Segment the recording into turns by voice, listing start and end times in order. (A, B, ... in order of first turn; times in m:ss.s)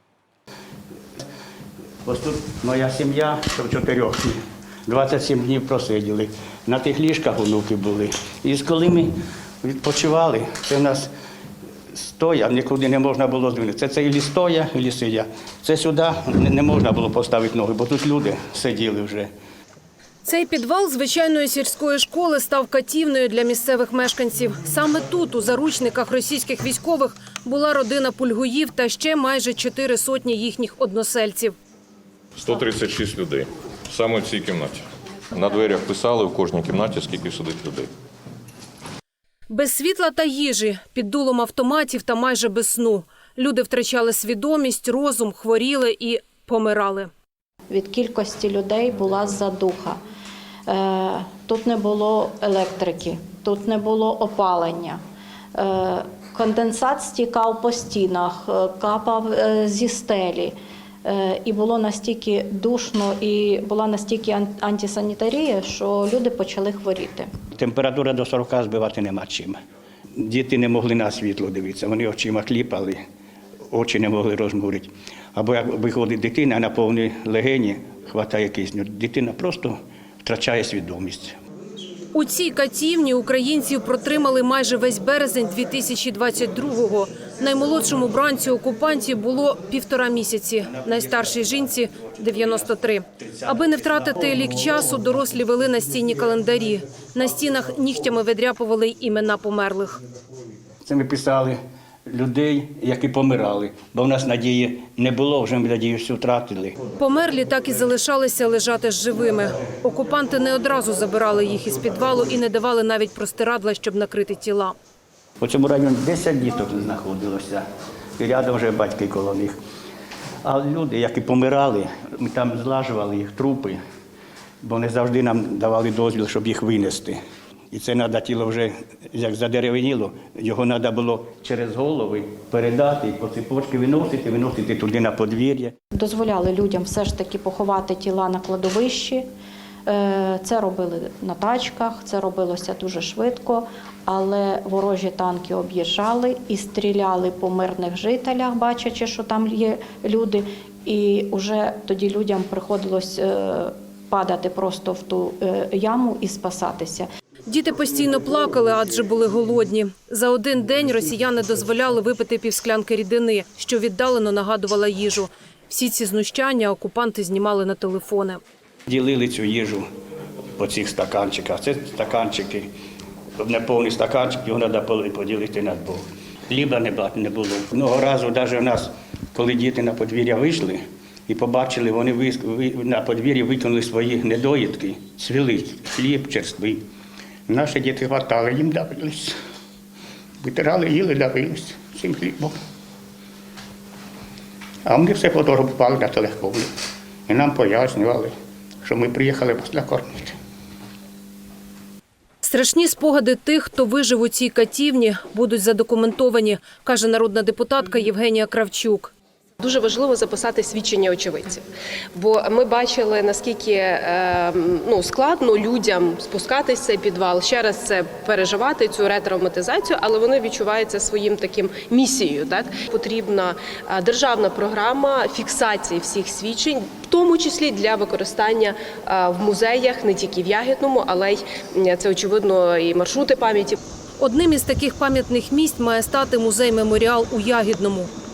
0:02.0-0:11.1 A
0:11.9-0:19.3 A
0:20.2-0:31.6 B
0:32.4-0:37.9 C
0:39.5-0:47.1 B
0:47.7-0:50.0 D
0:50.7-0:55.0 D
0:55.6-1:00.5 D
1:01.0-1:07.3 D
1:07.6-1:09.6 A
1:10.2-1:13.0 A
1:13.7-1:21.4 A
1:22.1-1:40.0 B
1:33.4-1:33.8 A
1:40.8-1:46.8 A
1:47.0-1:54.8 B
1:55.4-1:57.6 A
1:58.2-1:59.6 A
2:00.4-2:03.8 A
2:04.6-2:07.2 A
2:07.7-2:15.7 A
2:16.0-2:19.2 D
2:19.9-2:37.1 D
2:37.5-2:48.4 B
2:48.9-2:49.9 A
2:50.6-2:52.7 A
2:53.4-3:06.8 A
3:07.5-3:09.4 A
3:10.4-3:12.6 A
3:14.8-3:16.7 A
3:17.3-3:20.4 A
3:22.4-3:29.1 B
3:29.6-3:53.8 E
3:54.2-3:58.1 B